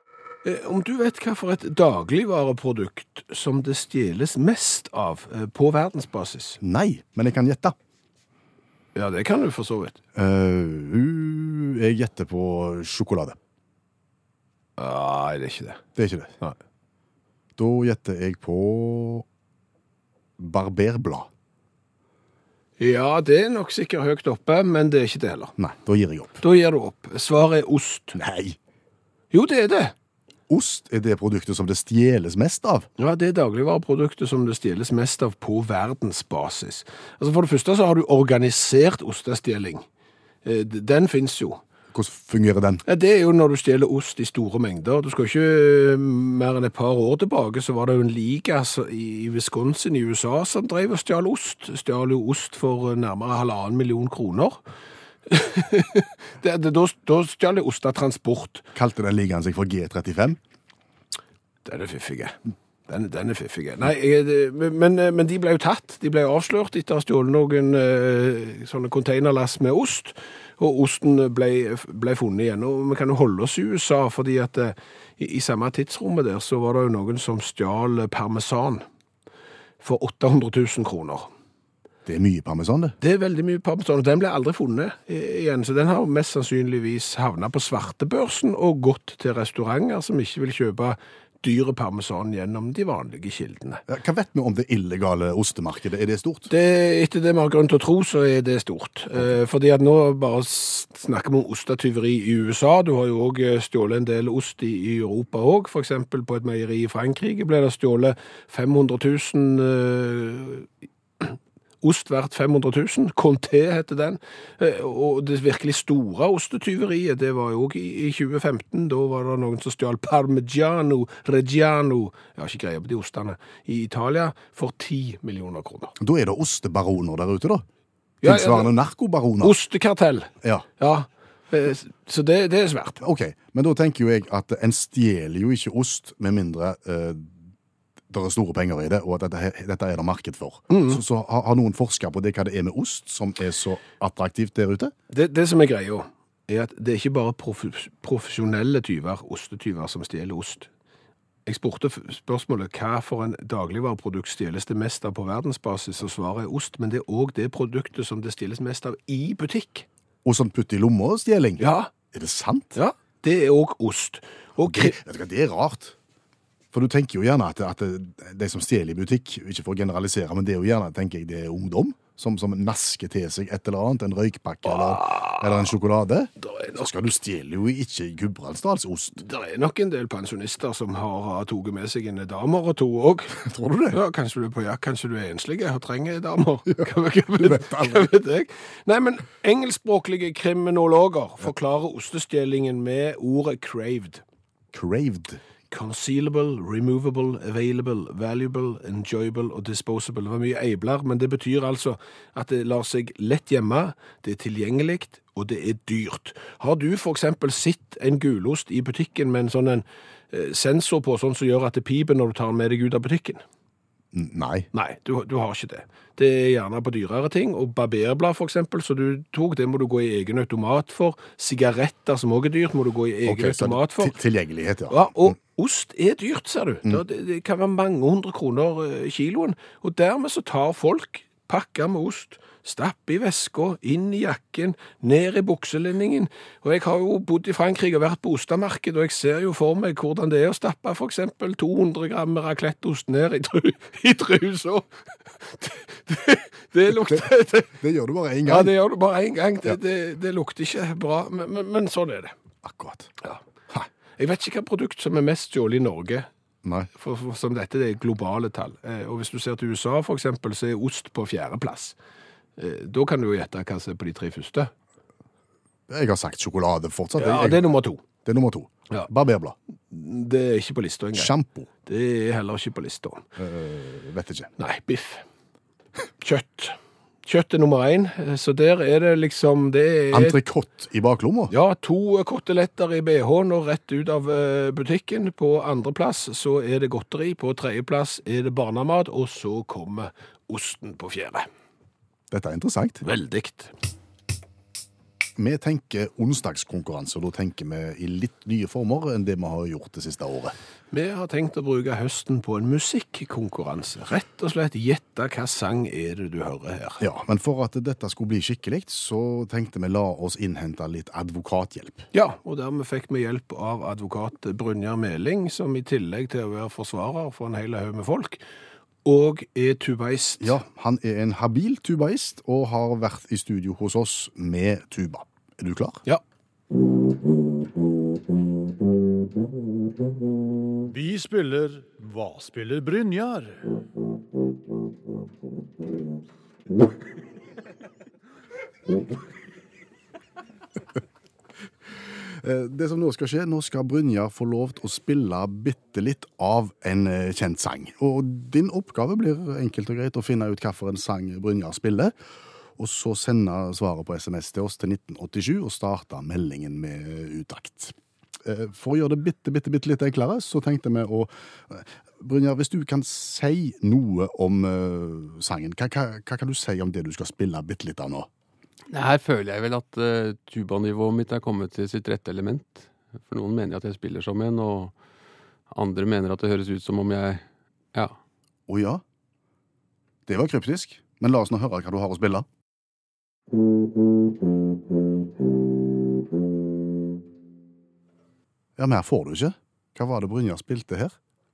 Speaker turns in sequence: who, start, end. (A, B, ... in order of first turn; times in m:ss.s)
0:00.4-0:06.6 A
0:06.6-0:07.8 B
0:09.0-0:10.0 A
0:10.2-0:13.4 B
0:14.8-0:15.8 A
0:16.0-0:16.4 B
0:17.6-0:19.3 B
0:20.4-0:21.3 B
0:22.8-0:25.5 A
0:25.6-0:26.4 B
0:26.4-0:28.2 A
0:28.2-0:28.6 B
0:29.3-0:29.9 A
0:30.5-0:32.9 B
0:33.0-0:39.8 A
0:40.4-0:41.6 A
0:41.9-0:42.8 B
0:42.8-0:54.6 A
0:55.3-0:58.6 A
0:58.8-1:00.4 B
1:01.6-1:02.4 A
1:02.9-1:18.8 A
1:19.8-1:21.3 A
1:22.1-1:23.0 B
1:23.0-1:33.8 A
1:33.9-1:36.5 B
1:36.5-1:50.7 A
1:51.2-2:06.0 A
2:06.0-2:07.6 B
2:08.2-2:08.7 A
2:08.2-2:09.6 B
2:09.4-2:13.0 A
2:13.0-2:17.4 B
2:18.1-2:24.9 B
2:20.7-2:21.0 A
2:25.1-2:30.7 A
2:31.5-2:39.9 A
2:40.2-2:42.8 B
2:41.6-2:41.9 A
2:42.8-2:45.0 A
2:44.6-2:46.0 B
2:46.7-2:59.2 B
2:54.7-2:55.5 A
2:56.4-2:56.8 A
2:59.2-3:03.4 A
3:03.3-3:04.0 B
3:03.9-3:14.2 A
3:06.7-3:08.1 B
3:14.7-3:15.4 B
3:15.7-3:33.4 A
3:34.1-3:34.7 B
3:34.7-3:44.2 A
3:43.3-3:45.0 B
3:44.9-4:04.9 A
4:05.4-4:07.7 A
4:06.9-4:08.7 B
4:08.5-4:12.3 A
4:12.6-4:13.1 B
4:14.2-4:16.3 A
4:16.6-4:16.9 B
4:16.9-4:22.0 A
4:22.6-4:24.7 A
4:25.9-4:27.7 B
4:27.2-4:28.0 A
4:28.2-4:29.6 B
4:29.9-4:31.3 A
4:31.2-4:31.7 B
4:31.9-4:33.2 A
4:33.4-4:34.5 B
4:34.6-4:35.2 A
4:36.2-4:40.4 A
4:40.1-4:41.5 B
4:41.5-4:51.5 A
4:52.3-4:53.0 B
4:53.0-4:53.7 A
4:55.4-5:00.6 B
5:00.9-5:07.0 A
5:07.0-5:12.1 B
5:12.1-5:18.4 A
5:19.0-5:20.6 A
5:20.4-5:26.0 B
5:30.9-5:33.8 C
5:42.2-5:52.1 B
5:52.8-6:08.3 B
6:08.9-6:14.9 D
6:15.7-6:18.2 D
6:18.7-6:19.0 B
6:20.3-6:22.5 B
6:28.8-6:31.2 B